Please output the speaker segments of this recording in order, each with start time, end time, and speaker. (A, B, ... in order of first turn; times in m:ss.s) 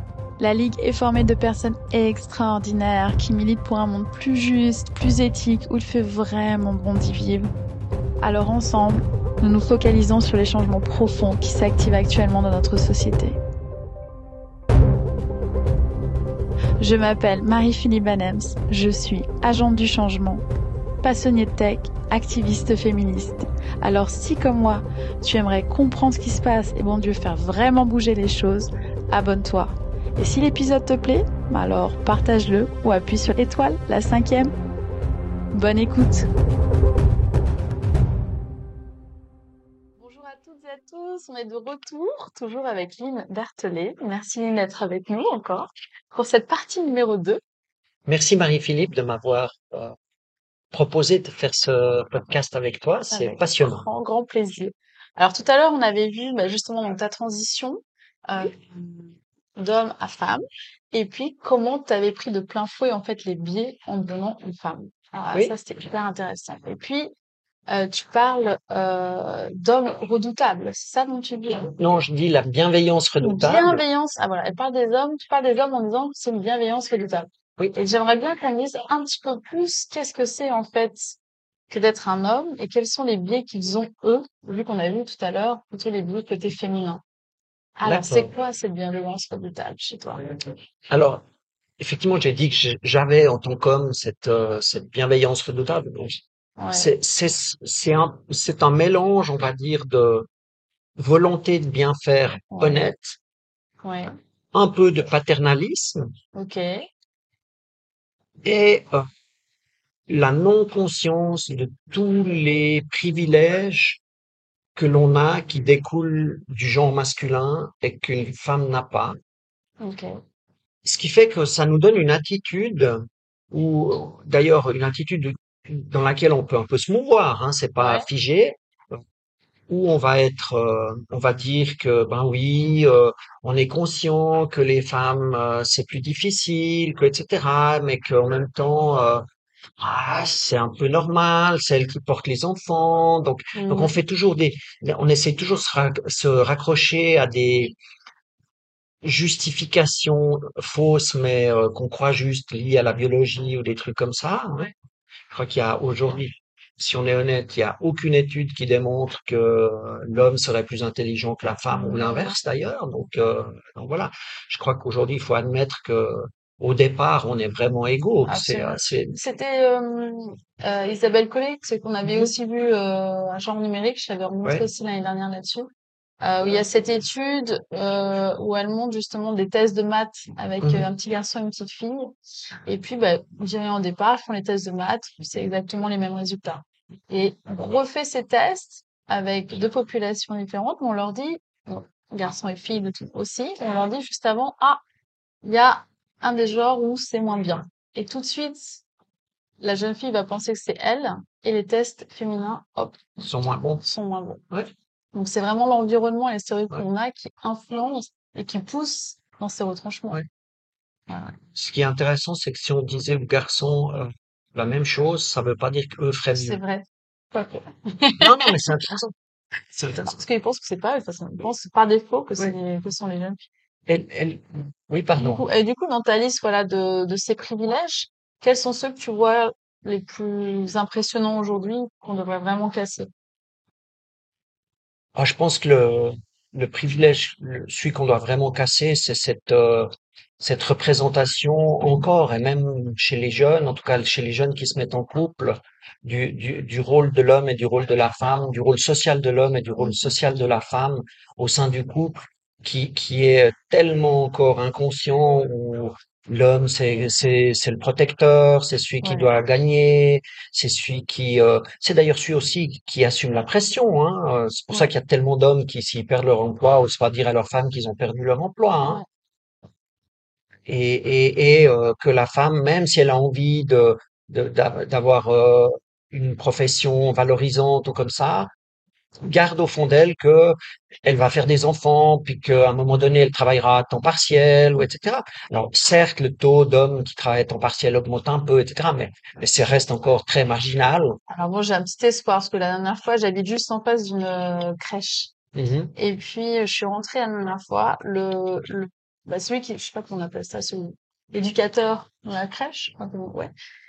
0:00.4-0:07.5 A
0:08.2-0:13.4 A
0:16.8-0:20.4 A
0:21.0-0:34.5 A
0:35.5-0:36.3 A
0:40.0-0:47.4 A
0:48.1-0:49.9 B
0:50.7-0:53.9 B
0:53.1-1:07.1 A
1:07.7-1:11.8 A
1:11.8-1:13.8 B
1:13.2-1:21.2 A
1:21.7-1:27.0 A
1:27.8-1:30.3 A
1:27.8-1:28.3 B
1:30.9-1:31.2 B
1:31.8-1:36.2 B
1:36.6-1:36.9 A
1:36.7-1:40.3 B
1:41.0-1:43.2 B
1:42.5-1:42.9 A
1:43.8-1:44.1 A
1:44.5-1:46.1 B
1:46.4-1:46.7 A
1:48.4-1:49.0 B
1:50.1-1:54.0 B
1:54.8-1:59.2 B
1:59.8-2:00.2 A
2:00.8-2:09.0 B
2:07.8-2:08.1 A
2:09.7-2:19.2 B
2:19.8-2:27.8 B
2:23.5-2:23.9 A
2:29.0-2:34.7 B
2:35.3-2:49.2 B
2:41.7-2:42.4 A
2:48.2-2:55.7 A
2:52.0-2:52.3 B
2:56.2-3:02.1 A
3:00.6-3:00.9 B
3:02.7-3:14.8 A
3:15.4-3:18.8 A
3:19.6-3:23.0 A
3:23.2-3:23.8 B
3:23.8-3:24.4 A
3:25.1-3:30.2 A
3:31.1-3:31.4 A
3:31.6-3:36.6 B
3:36.3-3:38.5 A
3:38.2-3:39.1 B
3:39.8-3:40.2 B
3:40.0-3:43.4 A
3:43.9-3:45.5 B
3:45.2-3:53.1 A
3:55.2-4:29.0 B
4:19.0-4:19.3 A
4:30.7-4:38.5 B
4:39.3-4:51.2 B
4:51.3-4:55.3 A
4:55.6-4:55.9 B
4:56.0-5:03.5 A